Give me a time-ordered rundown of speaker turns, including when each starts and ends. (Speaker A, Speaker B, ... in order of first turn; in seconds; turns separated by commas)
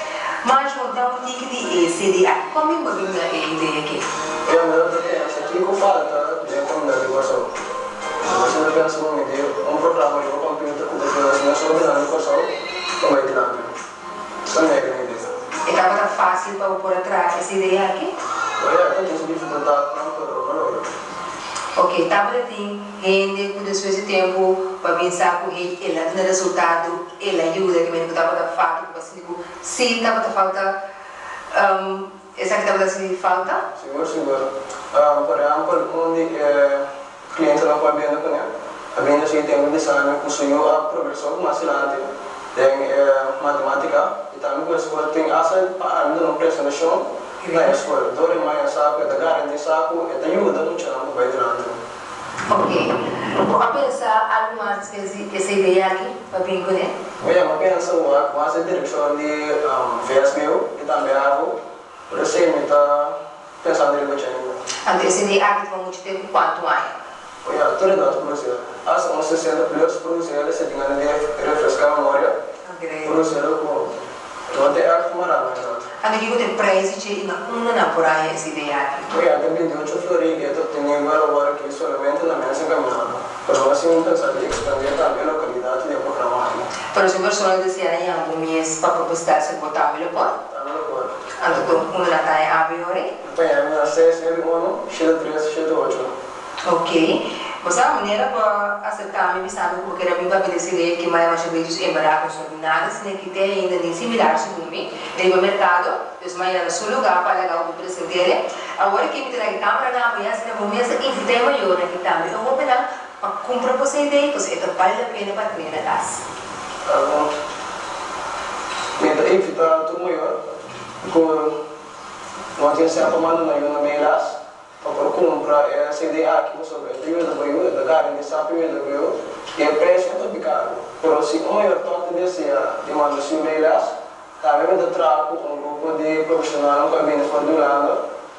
Speaker A: 0.4-4.0, Speaker B: 4.5-7.5, Speaker B: 8.2-12.5, Speaker B: 13.0-13.7, Speaker B: 14.4-15.3, Speaker A: 15.7-18.1, Speaker B: 18.6-20.9, Speaker A: 21.8-30.7, Speaker A: 31.5-33.6, Speaker B: 33.8-51.8, Speaker A: 47.4-47.7, Speaker A: 52.5-56.9, Speaker B: 57.2-61.5, Speaker B: 62.1-64.6, Speaker A: 64.8-67.0, Speaker B: 67.4-72.3, Speaker A: 72.6-73.2, Speaker B: 73.0-74.0, Speaker B: 74.5-75.9, Speaker A: 76.0-79.1, Speaker B: 79.1-86.7, Speaker A: 86.9-90.3, Speaker B: 90.5-91.6, Speaker A: 91.4-93.1, Speaker B: 93.2-96.1, Speaker A: 96.7-116.2, Speaker B: 116.8-117.3, Speaker B: 119.0-120.3, Speaker B: 121.0-121.6, Speaker B: 122.6-138.0